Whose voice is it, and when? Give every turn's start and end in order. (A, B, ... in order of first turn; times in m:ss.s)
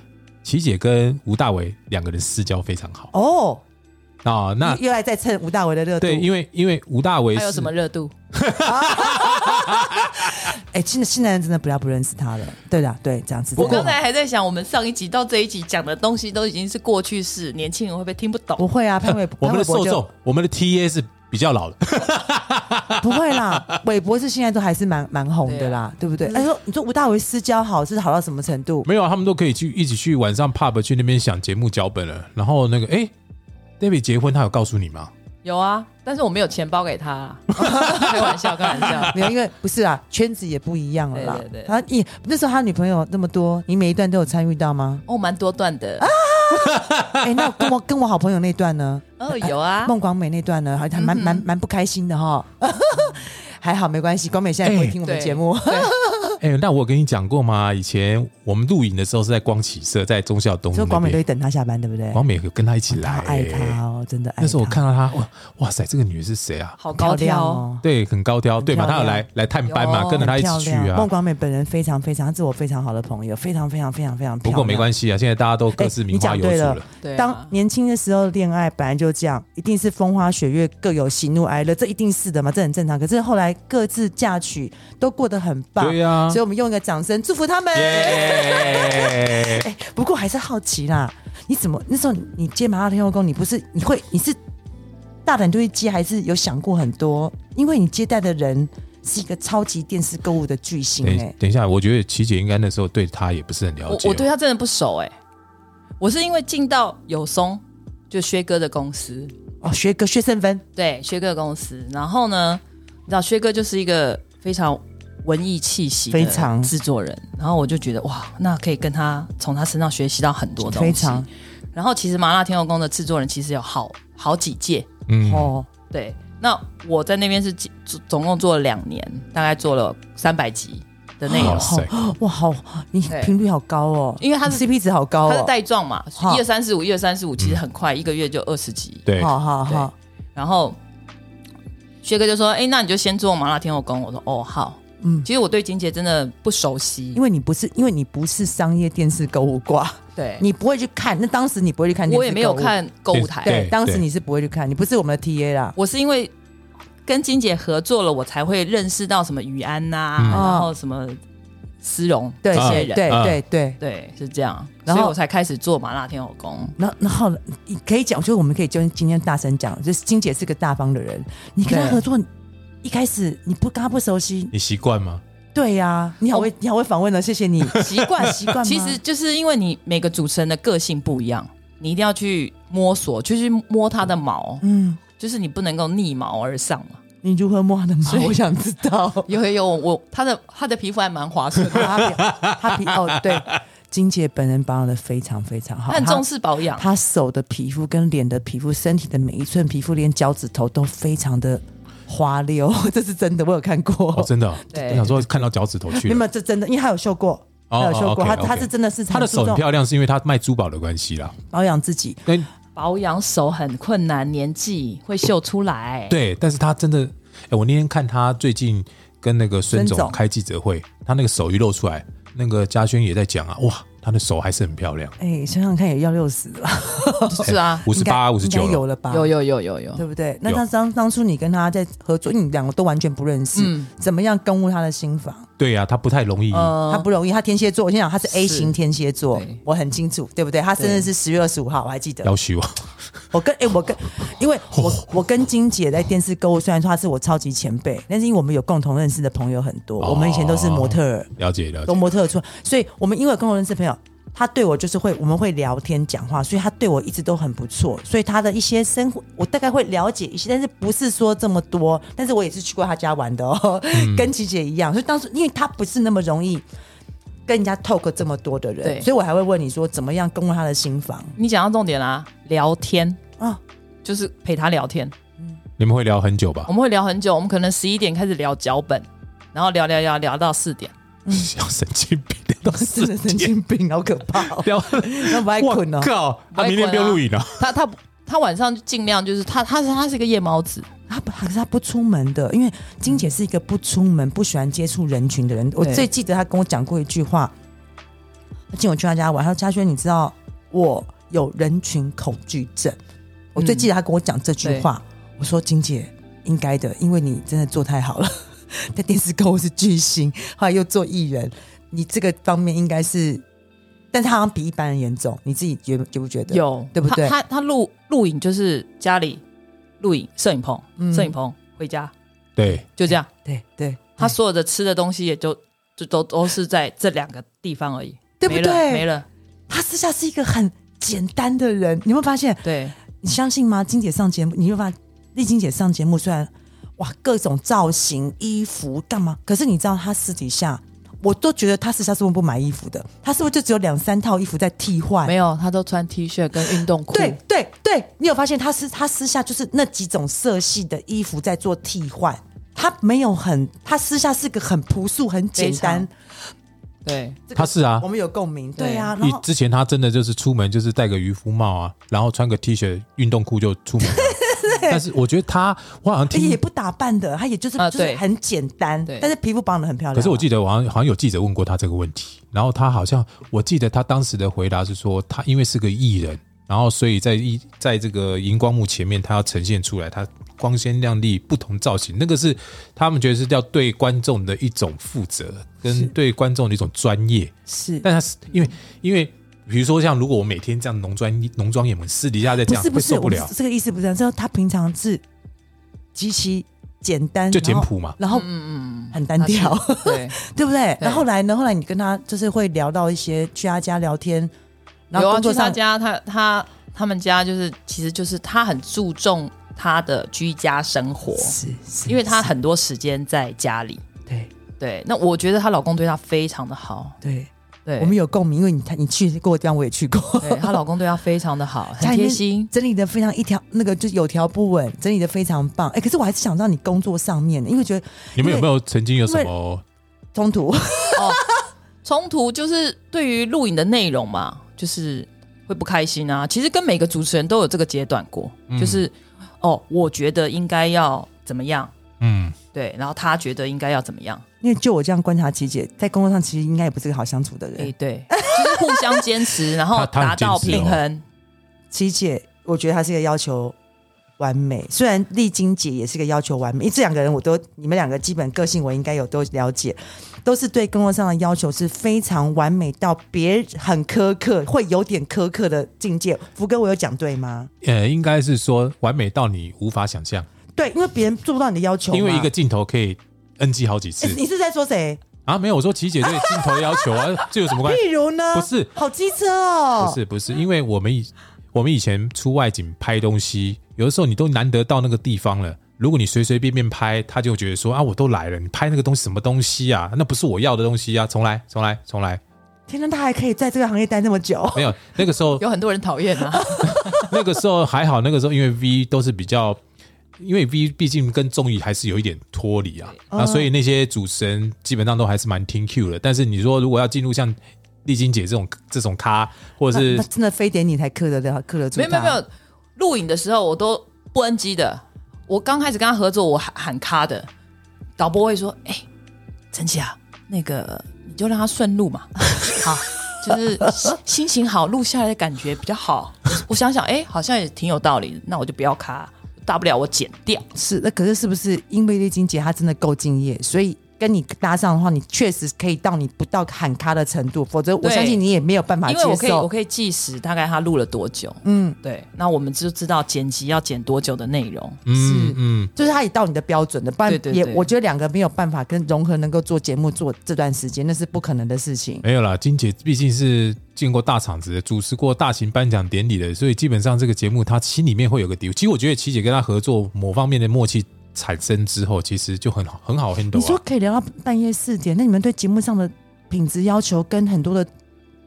0:00.4-0:03.1 A
0:03.1-0:03.6 B
0:04.2-0:04.8 A
0:04.6-0:06.3 B
0:06.0-0:07.7 A
0:07.3-0:08.1 C
0:08.3-0:10.5 A
0:08.6-0:13.9 B
0:13.6-0:18.7 C
0:13.6-0:14.0 A
0:18.6-0:20.0 B
0:19.4-0:23.8 A
0:23.0-0:28.9 B
0:25.4-0:26.5 C
0:28.8-0:33.1 A
0:33.8-0:35.1 A
0:35.4-0:39.2 C
0:37.6-0:38.1 B
0:39.0-0:45.0 B
0:41.1-0:41.8 C
0:45.1-0:46.1 C
0:46.0-0:56.4 B
0:46.5-0:47.6 A
0:49.2-0:49.9 C
0:50.9-0:51.4 C
0:54.6-0:55.0 A
0:55.0-0:55.9 C
0:56.4-1:01.2 A
1:00.7-1:02.2 B
1:02.1-1:03.8 A
1:02.9-1:04.8 B
1:04.4-1:06.8 A
1:06.8-1:07.6 C
1:06.9-1:07.8 B
1:07.8-1:11.1 A
1:08.6-1:09.2 B
1:09.7-1:10.3 C
1:10.2-1:14.9 B
1:14.4-1:16.8 A
1:15.7-1:34.4 B
1:17.0-1:17.5 C
1:25.8-1:26.4 A
1:27.7-1:29.6 A
1:35.2-1:41.3 B
1:41.0-1:44.3 A
1:43.9-1:45.1 C
1:46.0-1:49.3 C
1:49.6-1:50.6 B
1:50.8-2:04.9 C
1:56.1-1:56.7 B
2:00.6-2:01.3 B
2:05.1-2:05.5 A
2:05.2-2:05.7 B
2:05.9-2:11.8 C
2:11.3-2:15.5 B
2:11.3-2:11.9 A
2:13.1-2:13.3 C
2:14.2-2:14.6 C
2:15.2-2:19.0 C
2:16.2-2:16.4 B
2:19.1-2:19.3 A
2:19.2-2:19.9 B
2:19.7-2:20.8 C
2:22.0-2:27.2 C
2:25.0-2:25.3 B
2:27.1-2:32.7 B
2:30.2-2:30.4 C
2:32.1-2:33.6 C
2:33.1-2:34.0 A
2:33.4-2:35.8 B
2:35.8-2:36.3 C
2:37.0-2:41.2 C
2:40.2-2:40.4 A
2:40.3-2:40.7 B
2:41.8-2:43.2 C
2:42.4-2:43.8 B
2:42.5-2:43.4 A
2:43.8-2:46.8 C
2:44.8-2:45.1 B
2:46.8-2:52.3 B
2:51.7-2:52.0 C
2:52.8-2:54.5 B
2:54.5-2:55.2 A
2:55.5-2:59.0 B
2:57.7-2:58.0 A
2:57.7-3:04.6 C
3:04.6-3:05.0 B
3:05.2-3:07.0 C
3:07.2-3:09.3 B
3:08.0-3:08.3 C
3:09.3-3:12.1 C
3:11.7-3:29.6 B
3:12.1-3:12.5 A
3:15.9-3:16.9 C
3:24.1-3:26.2 A
3:24.7-3:25.0 C
3:27.7-3:31.4 A
3:31.5-3:32.3 B
3:32.7-3:36.2 C
3:36.1-3:45.1 A
3:39.7-3:40.2 B
3:45.2-3:49.3 B
3:47.3-3:47.9 C
3:47.4-3:48.8 A
3:49.1-3:50.0 C
3:50.0-3:55.5 B
3:53.5-3:53.9 C
3:55.6-3:56.8 A
3:56.5-3:57.1 C
3:56.9-4:02.3 B
3:58.3-3:58.7 C
3:59.3-3:59.6 C
4:00.8-4:01.1 C
4:02.2-4:02.8 A
4:03.3-4:11.3 B
4:10.0-4:12.0 A
4:11.9-4:26.6 B
4:23.9-4:24.3 A
4:27.5-4:31.3 B
4:28.8-4:29.1 C
4:31.4-4:33.2 C
4:34.0-4:35.1 C
4:35.8-4:36.7 A
4:36.6-4:40.9 C
4:41.2-4:41.5 B
4:41.3-4:43.5 A
4:42.6-4:46.1 B
4:44.4-4:47.7 A
4:46.5-4:50.9 C
4:51.1-4:57.5 B
4:55.8-4:56.0 C
4:58.7-5:03.0 B
5:03.5-5:13.4 B
5:03.6-5:03.9 C
5:14.1-5:17.3 B
5:16.5-5:19.4 C
5:20.0-5:22.1 C
5:21.0-5:21.3 B
5:22.6-5:22.8 A
5:22.9-5:23.3 C
5:23.1-5:24.3 B
5:24.2-5:29.3 C
5:28.4-5:29.1 B
5:29.7-5:45.3 B
5:32.6-5:33.0 C
5:45.2-5:47.4 C
5:46.6-5:56.1 B
5:55.6-5:56.1 C
5:57.0-5:57.4 C
5:57.5-5:59.4 B
5:57.6-5:58.0 A
5:58.8-5:59.1 C
5:59.2-6:06.6 A
6:04.0-6:05.0 B
6:06.3-6:10.5 B
6:07.8-6:08.2 C
6:09.0-6:09.3 C
6:10.1-6:33.5 A
6:25.9-6:26.1 B
6:27.7-6:28.0 B
6:32.6-6:35.2 B
6:36.1-6:38.5 B
6:37.5-6:38.2 A
6:38.2-6:40.4 C
6:39.1-6:44.5 B
6:41.0-6:41.2 C
6:45.1-6:45.8 B
6:45.1-6:54.0 C
6:51.4-6:52.5 B
6:54.8-6:57.2 C
6:57.2-7:00.8 B
6:57.8-6:58.1 C
7:00.4-7:02.7 C
7:02.0-7:08.7 B
7:08.4-7:09.8 A
7:09.2-7:09.5 B
7:10.3-7:11.6 B
7:11.2-7:11.4 C
7:12.0-7:21.9 C
7:18.7-7:19.0 A
7:22.2-7:22.6 A
7:22.7-7:24.4 C
7:24.6-7:29.3 B
7:27.8-7:31.2 C
7:29.9-7:31.0 A
7:31.9-7:33.8 B
7:34.4-7:47.7 B
7:47.8-7:50.5 A
7:50.8-7:52.5 B
7:52.1-7:54.4 A
7:54.2-7:55.2 B
7:55.4-7:58.9 A
7:56.2-8:00.2 B
8:00.0-8:12.4 A
8:12.9-8:15.0 B
8:14.7-8:15.6 A
8:15.6-8:17.2 C
8:16.5-8:17.4 B
8:16.8-8:19.8 A
8:20.4-8:30.2 A
8:23.3-8:23.7 B
8:29.9-8:32.4 B
8:31.9-8:37.5 C
8:38.2-8:39.0 C
8:39.7-8:50.7 C
8:50.7-8:59.7 B
8:58.0-8:58.4 C
8:59.0-9:05.0 C
9:01.6-9:02.0 B
9:05.1-9:05.9 A
9:05.1-9:12.2 B
9:07.2-9:07.9 C
9:12.2-9:23.8 A
9:23.5-9:27.9 B